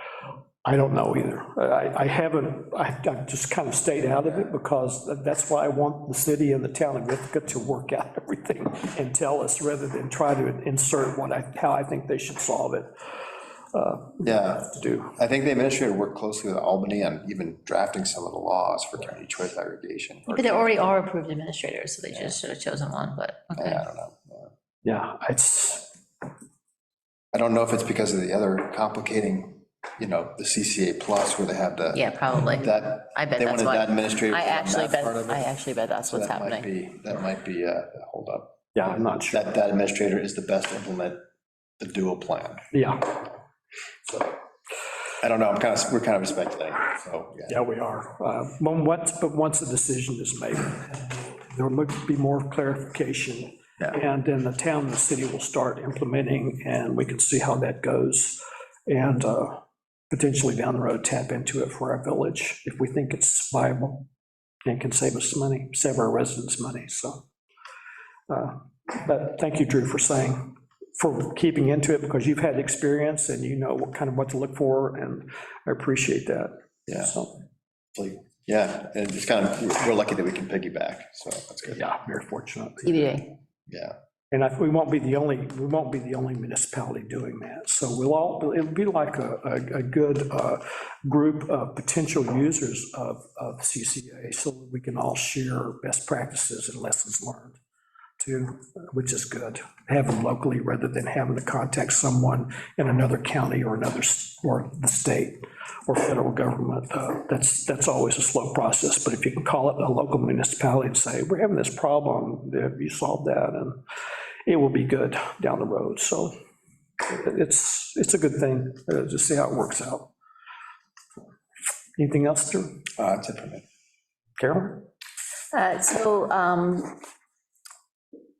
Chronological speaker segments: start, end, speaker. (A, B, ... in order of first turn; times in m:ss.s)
0:00.6-0:12.9 A
0:04.2-0:04.5 B
0:13.7-0:15.1 A
0:14.2-0:20.9 B
0:20.3-0:23.8 C
0:22.1-0:22.4 B
0:23.5-0:24.5 B
0:24.8-0:25.9 A
0:27.3-0:35.5 B
0:31.9-0:36.7 C
0:36.1-0:38.6 B
0:38.7-0:39.4 A
0:39.3-0:41.2 B
0:41.8-0:42.7 B
0:42.7-0:43.2 A
0:45.2-0:47.6 B
0:47.5-0:59.6 A
1:00.1-1:04.0 A
1:04.6-1:07.2 A
1:08.3-1:17.4 A
1:16.9-1:17.1 B
1:17.9-1:21.8 B
1:21.7-1:23.2 A
1:22.8-1:23.3 C
1:23.7-1:23.9 B
1:24.3-1:37.6 A
1:38.2-1:53.8 A
1:54.4-1:56.3 A
1:57.0-2:00.1 A
2:02.0-2:02.8 A
2:03.0-2:03.6 B
2:04.4-2:04.8 A
2:05.5-2:07.0 C